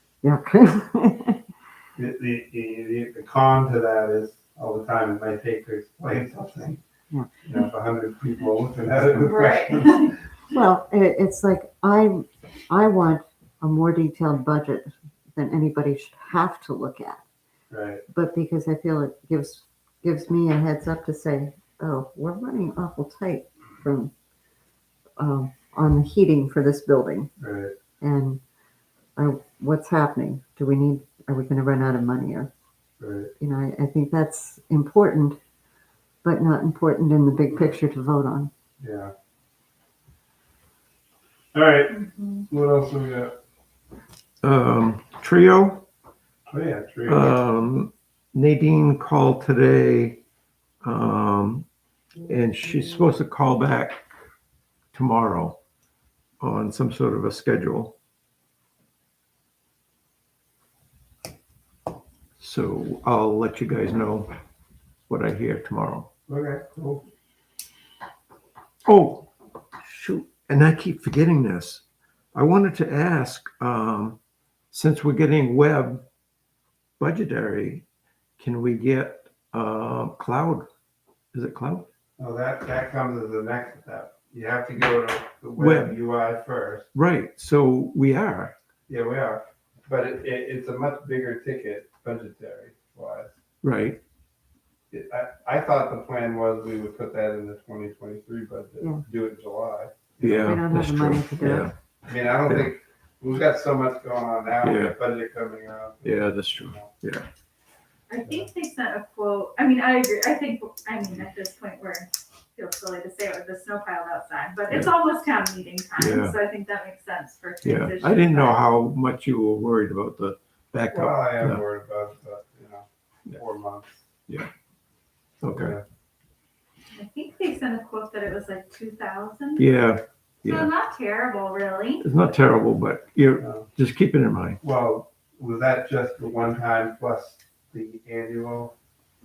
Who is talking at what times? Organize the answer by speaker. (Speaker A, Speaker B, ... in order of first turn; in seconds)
Speaker A: 0.2-1.4, 10.5-17.2, 18.1-24.1, 25.2-27.3, 28.0-28.4, 29.1-32.5, 33.4-35.4, 36.2-38.5, 100.3-101.7
Speaker B: 2.0-6.8, 7.4-10.1, 17.7-18.0, 27.4-27.7, 33.0-33.3, 38.8-39.1, 41.5-43.3, 46.5-47.3, 66.3-67.0, 82.2-86.9, 88.9-93.3, 94.9-100.5, 102.1-106.9, 108.2-108.5, 120.9-124.0, 125.5-125.8, 133.4-133.7, 134.6-138.7
Speaker C: 9.2-10.1, 41.9-42.5, 108.1-118.6, 126.9-129.7, 130.4-132.1
Speaker D: 44.4-45.8, 47.0-50.2, 50.8-51.7, 52.2-54.0, 54.9-55.6, 56.4-58.0, 62.4-64.3, 65.1-66.1, 68.8-71.8, 72.3-74.2, 74.7-76.0, 77.0-77.8, 78.4-80.7, 81.3-81.9, 85.6-86.0, 86.9-88.5, 93.6-94.0, 100.2-101.7, 102.4-102.7, 104.6-105.0, 106.0-107.2, 116.0-116.4, 117.6-121.6, 125.4-125.7, 129.6-130.7, 132.0-134.6